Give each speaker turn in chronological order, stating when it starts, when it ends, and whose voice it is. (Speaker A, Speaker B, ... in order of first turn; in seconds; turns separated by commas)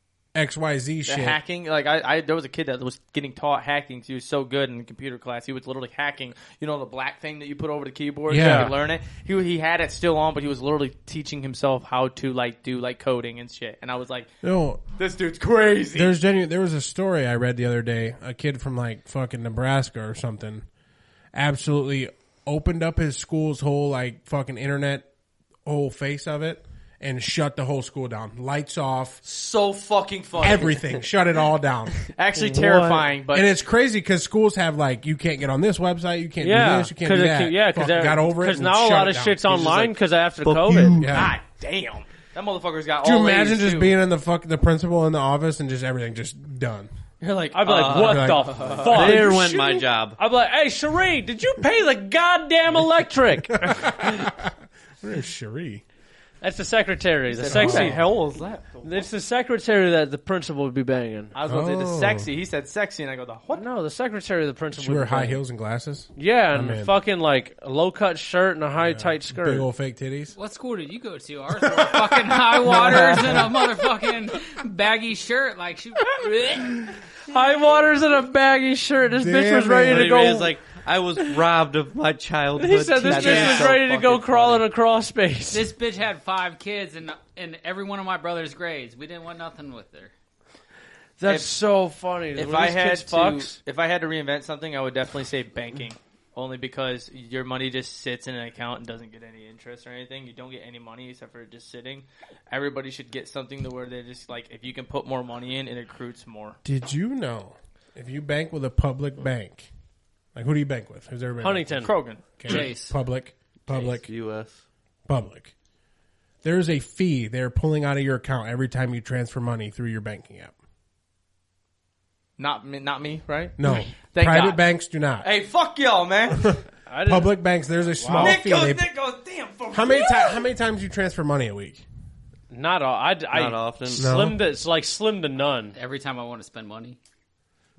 Speaker A: 0.3-1.4, Speaker B: 1.1-14.3, Speaker A: 8.3-8.8, Speaker C: 8.3-8.7, Speaker A: 14.4-14.8, Speaker B: 15.0-16.1, Speaker A: 15.9-20.7, Speaker A: 21.3-25.1, Speaker A: 25.6-29.2, Speaker B: 29.2-30.8, Speaker A: 30.4-32.0, Speaker B: 32.1-33.5, Speaker C: 32.4-33.1, Speaker A: 33.3-40.0, Speaker C: 36.4-41.0, Speaker D: 40.4-41.1, Speaker A: 40.7-41.4, Speaker B: 41.0-43.9, Speaker A: 43.0-46.9, Speaker B: 47.2-49.2, Speaker C: 47.5-54.1, Speaker D: 47.6-48.3, Speaker A: 47.9-49.5, Speaker D: 48.8-50.2, Speaker A: 53.5-55.8, Speaker C: 56.4-58.0, Speaker B: 57.3-59.1, Speaker A: 57.5-58.0, Speaker C: 58.8-61.3, Speaker B: 61.3-63.6, Speaker A: 61.5-62.3, Speaker C: 63.5-65.4, Speaker A: 64.8-66.9, Speaker C: 66.2-69.7, Speaker A: 68.8-70.3, Speaker E: 70.4-76.9, Speaker A: 71.6-73.6, Speaker B: 72.7-73.3, Speaker C: 76.2-80.5, Speaker A: 79.1-80.2, Speaker D: 79.9-83.9, Speaker C: 82.6-85.7, Speaker B: 83.0-84.6, Speaker E: 83.2-83.7, Speaker E: 85.5-90.1, Speaker C: 91.2-93.6, Speaker B: 92.4-106.6, Speaker A: 106.6-109.7, Speaker A: 110.3-111.9, Speaker C: 111.4-111.9, Speaker B: 111.8-112.2, Speaker A: 112.4-114.1, Speaker E: 112.4-112.9, Speaker D: 113.7-114.6, Speaker A: 115.1-115.5, Speaker A: 116.4-120.5, Speaker B: 122.4-124.6, Speaker A: 123.6-125.3, Speaker B: 125.2-126.6, Speaker A: 126.4-128.9, Speaker C: 126.9-127.4, Speaker C: 128.0-128.4, Speaker B: 128.1-130.4, Speaker A: 129.7-131.8, Speaker C: 132.5-135.8, Speaker D: 133.3-134.1, Speaker A: 134.0-134.4, Speaker E: 135.8-137.0